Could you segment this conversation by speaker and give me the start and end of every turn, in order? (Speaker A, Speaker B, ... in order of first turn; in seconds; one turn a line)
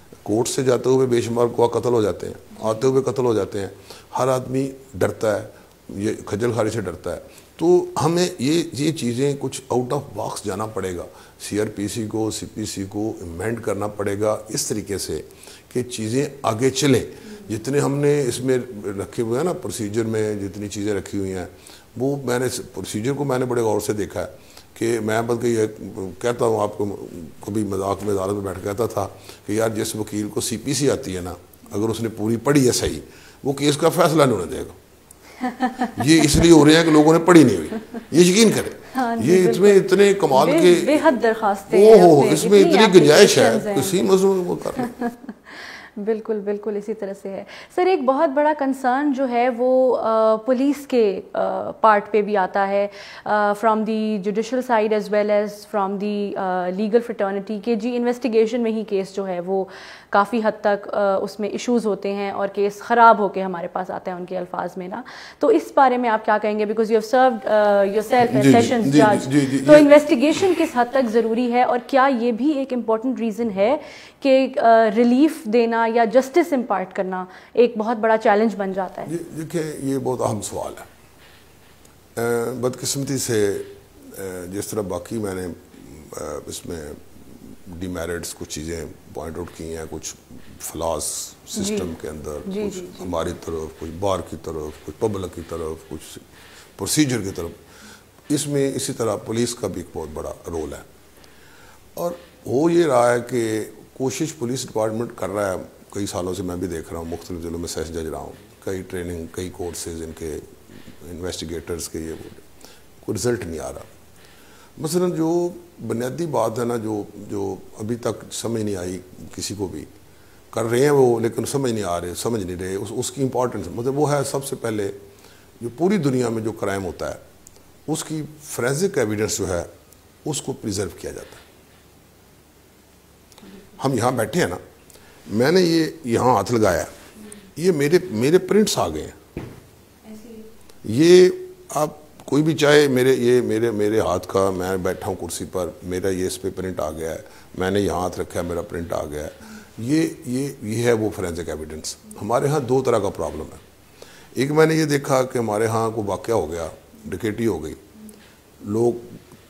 Speaker A: 0.2-34.8
Speaker B: 35.4-36.3
Speaker A: 35.9-41.1
Speaker B: 38.9-44.1
Speaker A: 41.7-44.9
Speaker B: 44.7-79.1
Speaker A: 68.3-69.9
Speaker A: 79.0-80.9
Speaker A: 82.2-96.2
Speaker B: 91.5-91.9
Speaker B: 92.5-93.1
Speaker A: 96.8-97.6
Speaker A: 98.3-100.8
Speaker A: 102.0-112.4
Speaker A: 113.0-113.9
Speaker A: 114.8-119.9
Speaker A: 120.5-125.0
Speaker A: 125.6-127.2
Speaker A: 127.9-129.7
Speaker A: 130.2-131.4
Speaker A: 133.8-134.6
Speaker A: 135.3-136.9
Speaker A: 137.6-139.2
Speaker B: 140.1-140.4
Speaker A: 140.8-153.6
Speaker A: 154.3-157.8
Speaker A: 158.6-159.2